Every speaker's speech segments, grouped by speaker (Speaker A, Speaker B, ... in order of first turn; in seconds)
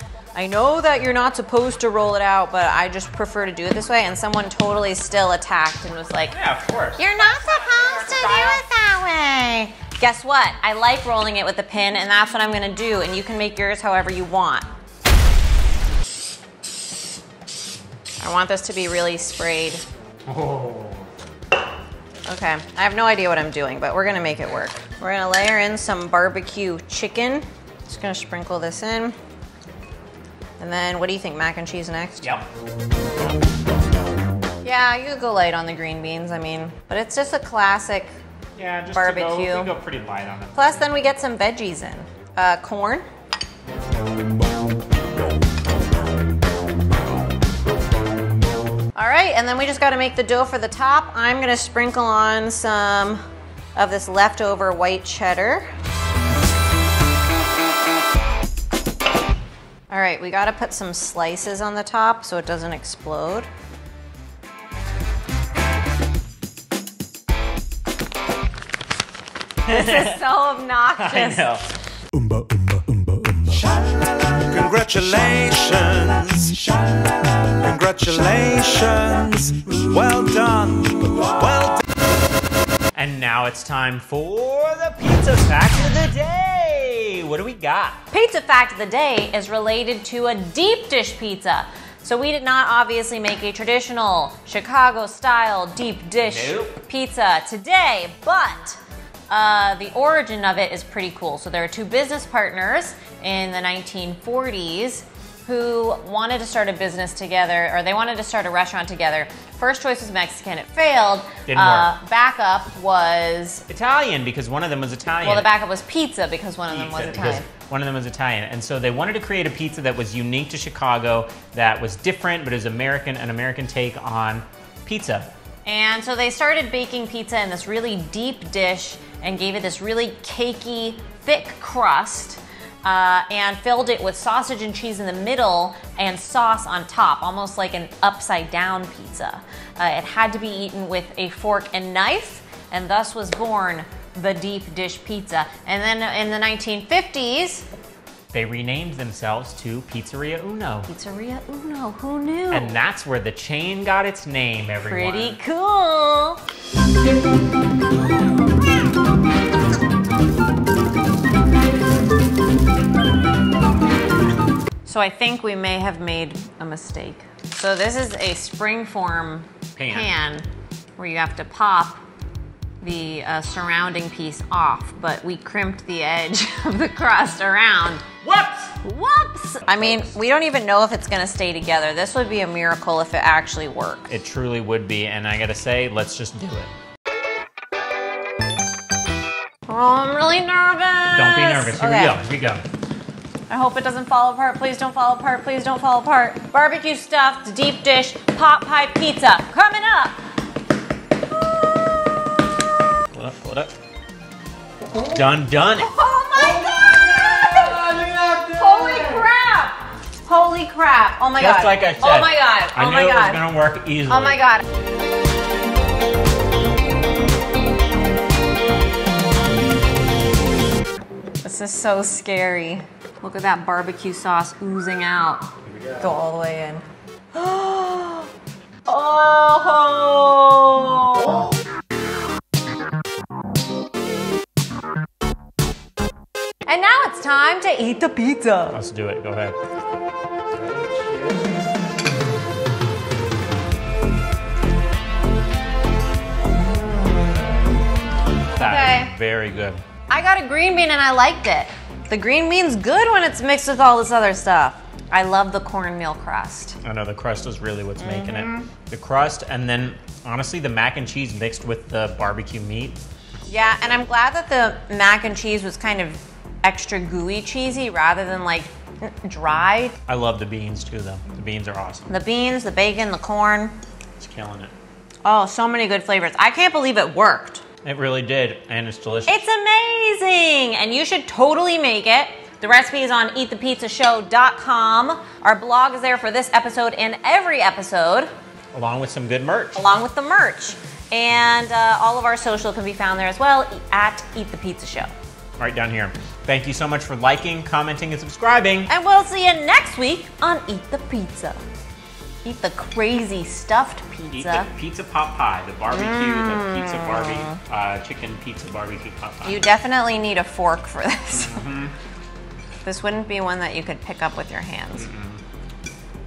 Speaker A: 0.3-6.4, 7.0-14.7, 18.2-19.8, 22.3-29.2, 30.6-32.4, 34.6-38.1, 38.9-39.8, 40.5-43.0, 49.0-53.2, 53.8-55.7, 59.9-63.5, 69.7-71.5, 88.1-113.7, 115.2-117.5, 125.7-147.7, 150.9-152.8, 154.8-156.4, 164.8-172.0, 172.8-178.1, 178.8-184.1, 189.7-192.2, 193.5-200.2, 205.8-207.9, 208.6-213.4, 214.1-214.6, 221.4-228.3, 228.9-231.5, 236.7-238.8, 248.6-249.1, 250.1-256.8, 258.0-258.7, 263.5-270.0, 272.1-273.8, 275.2-277.6, 279.3-288.3, 289.8-295.1, 298.9-301.6, 302.4-304.7, 305.9-307.6, 309.4-311.6, 312.8-315.1
Speaker B: 6.3-8.6, 20.3-21.1, 38.6-40.7, 69.7-70.2, 71.0-71.7, 74.7-76.4, 77.7-78.9, 79.7-80.9, 82.9-88.0, 96.2-96.8, 111.5-111.9, 113.7-115.5, 116.7-125.3, 148.3-150.9, 152.5-155.4, 169.8-170.1, 178.2-178.8, 179.7-180.2, 184.1-186.7, 191.1-192.6, 203.1-203.7, 204.9-209.2, 211.4-214.4, 238.7-239.6, 248.6-249.8, 256.8-263.0, 270.1-272.1, 274.2-274.7, 277.8-279.4, 288.7-289.8, 295.6-298.9, 304.3-309.6, 311.3-311.9, 315.0-315.4
Speaker C: 73.5-81.8